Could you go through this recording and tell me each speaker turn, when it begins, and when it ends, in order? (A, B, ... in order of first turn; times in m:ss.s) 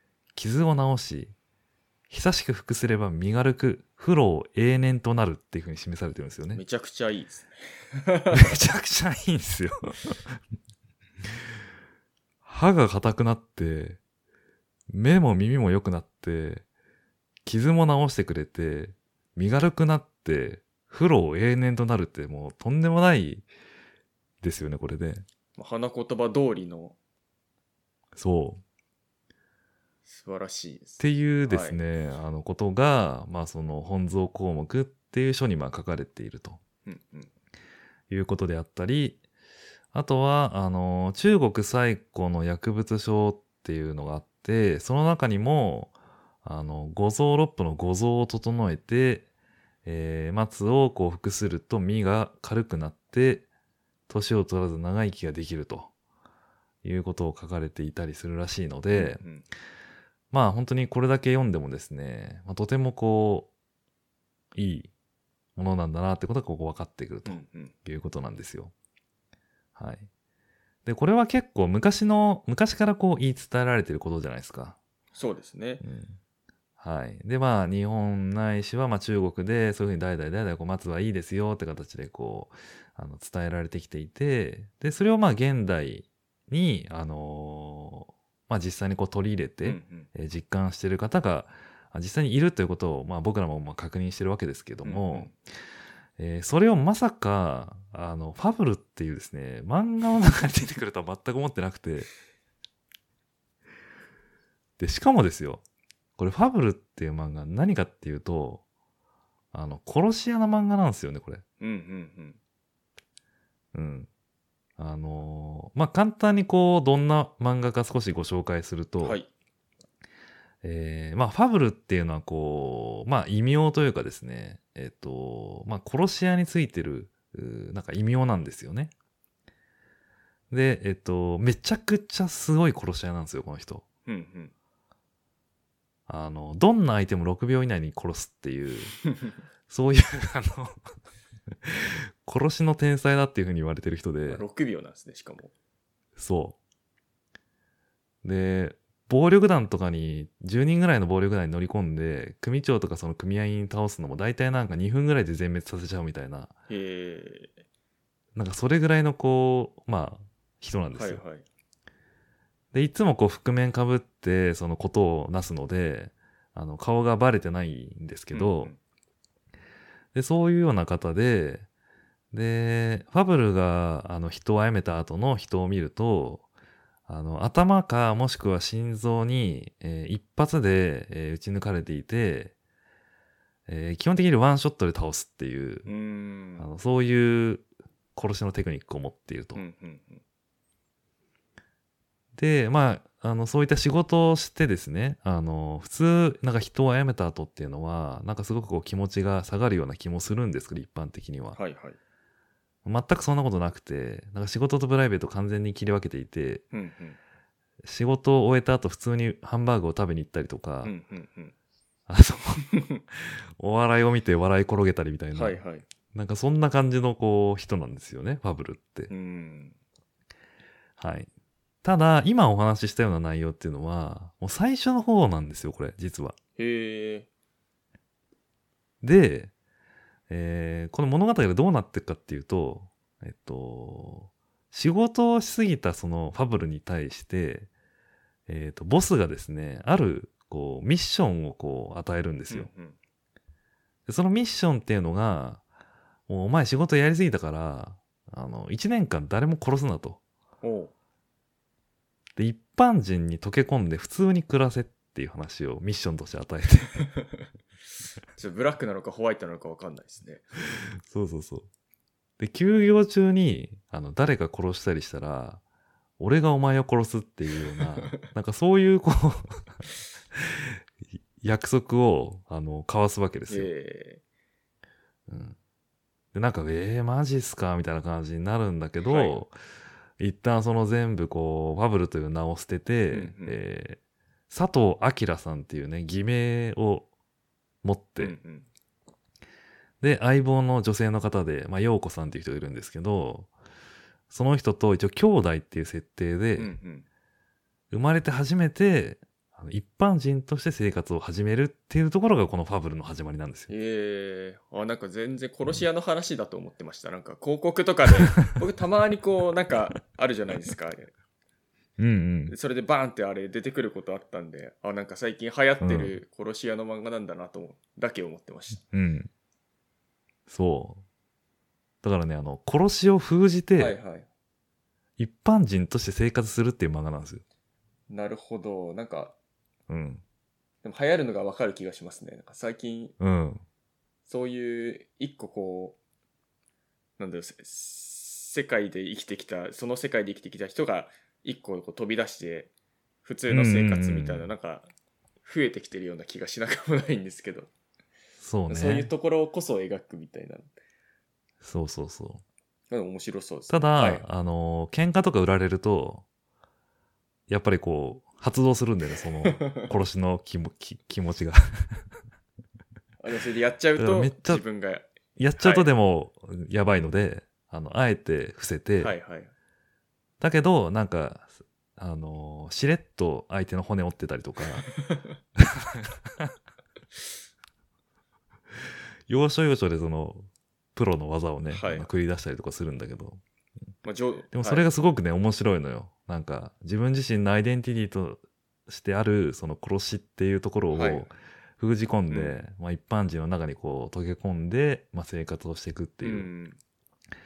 0:00.4-0:01.3 A
0:02.1-0:06.6 A
0:06.5-0:08.6 B
0:08.3-0:10.4 A
0:12.4-0:14.0 A
0:14.9-0:16.6 A
0:17.5-0:23.5 A
0:24.4-0:25.2 A
0:25.6-0:27.0 B
0:28.2-0:28.6 A
0:30.1-0:31.8 B
0:31.0-0:36.6 A
0:36.9-0:37.3 B
0:38.1-0:39.2 A
0:39.9-0:49.3 A
0:49.8-0:53.5 A
0:54.1-0:55.9 A
0:56.8-0:59.2 A
0:58.9-0:59.5 B
1:00.3-1:03.5 A
1:04.6-1:04.9 A
1:05.6-1:08.7 A
1:07.3-1:07.8 B
1:09.8-1:10.1 A
1:10.8-1:14.8 A
1:15.2-1:15.8 B
1:15.8-1:16.2 A
1:16.8-1:35.3 A
1:29.6-1:30.1 B
1:34.8-1:35.3 B
1:36.2-1:42.1 A
1:44.8-1:45.6 A
1:46.2-1:48.6 A
1:49.5-1:51.4 A
1:51.6-1:52.4 B
1:53.7-1:54.1 A
1:54.8-1:59.2 A
1:59.0-1:59.3 B
2:00.6-2:08.9 A
2:10.5-2:13.8 A
2:14.1-2:14.5 B
2:16.1-2:19.0 A
2:19.1-2:19.4 B
2:19.7-2:20.8 A
2:21.6-2:24.4 A
2:24.3-2:25.5 B
2:26.2-2:26.6 A
2:28.2-2:36.5 A
2:36.7-2:37.6 B
2:38.4-2:41.2 A
2:40.9-2:41.4 B
2:42.7-2:48.7 A
2:48.3-2:48.8 B
2:50.1-2:51.7 A
2:52.3-2:56.4 A
2:57.1-3:02.5 A
3:03.7-3:05.9 A
3:05.9-3:06.7 B
3:06.6-3:09.6 A
3:09.6-3:10.2 B
3:12.4-3:21.6 A
3:21.6-3:22.0 B
3:22.8-3:26.6 A
3:26.7-3:27.2 B
3:27.8-3:30.9 A
3:30.8-3:31.5 B
3:32.1-3:35.6 A
3:35.3-3:35.9 B
3:36.1-3:39.1 A
3:39.1-3:39.8 B
3:41.0-3:41.3 A
3:41.8-3:46.4 A
3:46.6-3:47.3 B
3:49.0-3:49.5 A
3:50.3-3:57.7 A
3:58.5-4:02.7 A
4:02.5-4:03.0 B
4:04.1-4:05.6 A
4:06.3-4:10.2 A
4:10.6-4:10.9 B
4:12.4-4:17.1 A
4:17.0-4:17.5 B
4:18.4-4:20.6 B
4:21.0-4:21.7 A
4:22.4-4:25.6 A
4:26.2-4:29.7 A
4:27.6-4:28.3 B
4:30.3-4:33.7 A
4:33.5-4:34.2 B
4:35.3-4:35.6 A
4:36.3-4:39.6 A
4:39.0-4:39.4 B
4:40.2-4:47.1 A
4:43.1-4:43.6 B
4:47.8-4:48.4 A
4:48.2-4:48.7 B
4:50.0-4:53.5 A
4:54.3-4:56.8 A
4:56.6-4:57.1 B
4:57.9-5:03.7 A
5:03.7-5:11.1 B
5:12.0-5:12.5 A
5:12.5-5:18.8 B
5:15.8-5:16.2 A
5:18.9-5:19.3 A
5:20.5-5:21.0 A
5:22.0-5:24.0 A
5:23.8-5:24.3 B
5:25.2-5:27.4 A
5:28.1-5:29.4 B
5:29.9-5:30.2 A
5:30.8-5:33.2 B
5:33.2-5:33.6 A
5:34.3-5:36.0 B
5:37.2-5:42.7 B
5:43.2-5:44.9 B
5:43.5-5:44.5 A
5:45.4-5:47.7 B
5:48.4-5:49.1 A
5:48.7-5:50.7 B
5:51.6-5:52.4 A
5:52.9-5:54.3 B
5:53.7-5:56.2 A
5:57.5-6:02.0 A
5:59.4-5:59.9 B
6:03.2-6:05.9 B
6:04.0-6:04.6 A
6:05.4-6:09.1 A
6:09.0-6:09.5 B
6:10.4-6:14.9 A
6:14.8-6:15.4 B
6:15.6-6:16.5 A
6:19.3-6:23.4 A
6:21.7-6:22.1 B
6:24.0-6:24.9 B
6:24.5-6:36.5 A
6:30.9-6:31.3 B
6:32.3-6:32.6 B
6:36.2-6:36.8 B